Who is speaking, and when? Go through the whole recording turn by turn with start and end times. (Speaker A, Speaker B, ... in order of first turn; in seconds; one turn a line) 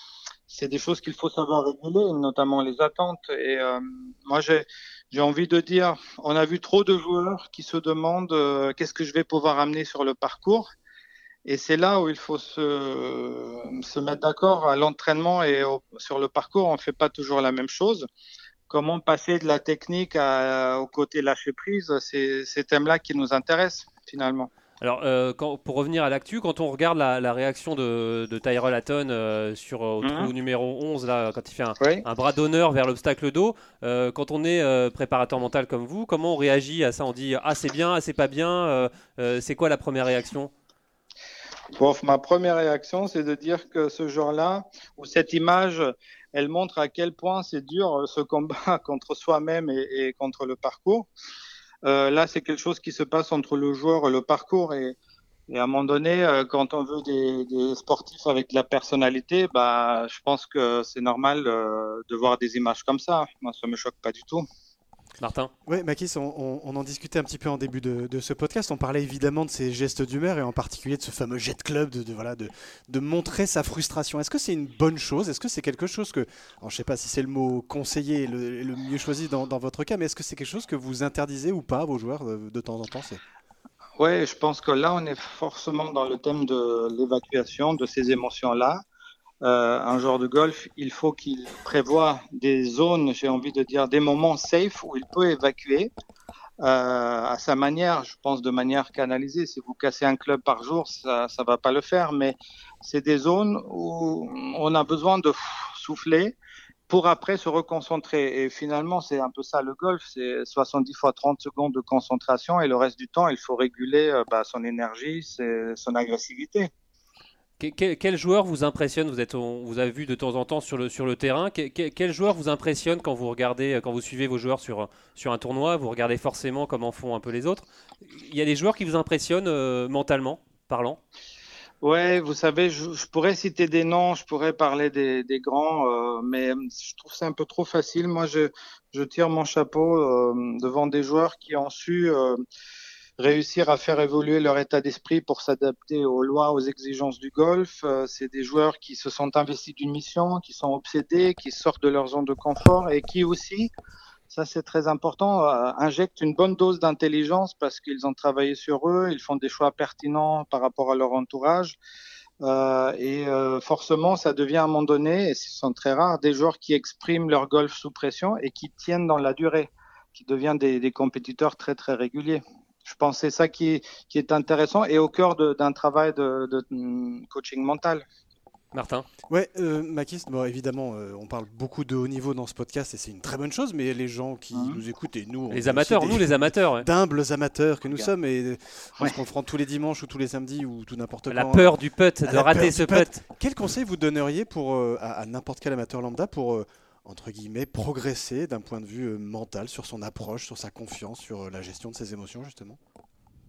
Speaker A: 0.5-10.7
Speaker A: 11.4-18.1
Speaker A: 18.7-24.5
Speaker B: 24.8-40.5
Speaker A: 30.0-30.3
Speaker A: 31.8-32.0
Speaker A: 41.8-51.1
Speaker A: 51.8-55.0
Speaker A: 55.5-64.4
Speaker B: 65.2-65.5
Speaker C: 65.7-83.2
Speaker A: 84.0-88.8
Speaker A: 89.4-95.9
Speaker A: 96.6-106.3
Speaker A: 106.9-116.7
Speaker B: 117.6-131.0
Speaker A: 131.8-142.4
Speaker A: 143.2-153.7
Speaker A: 154.3-161.8
Speaker A: 162.4-178.0
Speaker B: 178.7-179.1
Speaker C: 179.3-202.8
Speaker A: 184.5-184.8
Speaker B: 185.5-186.8
Speaker B: 191.3-193.2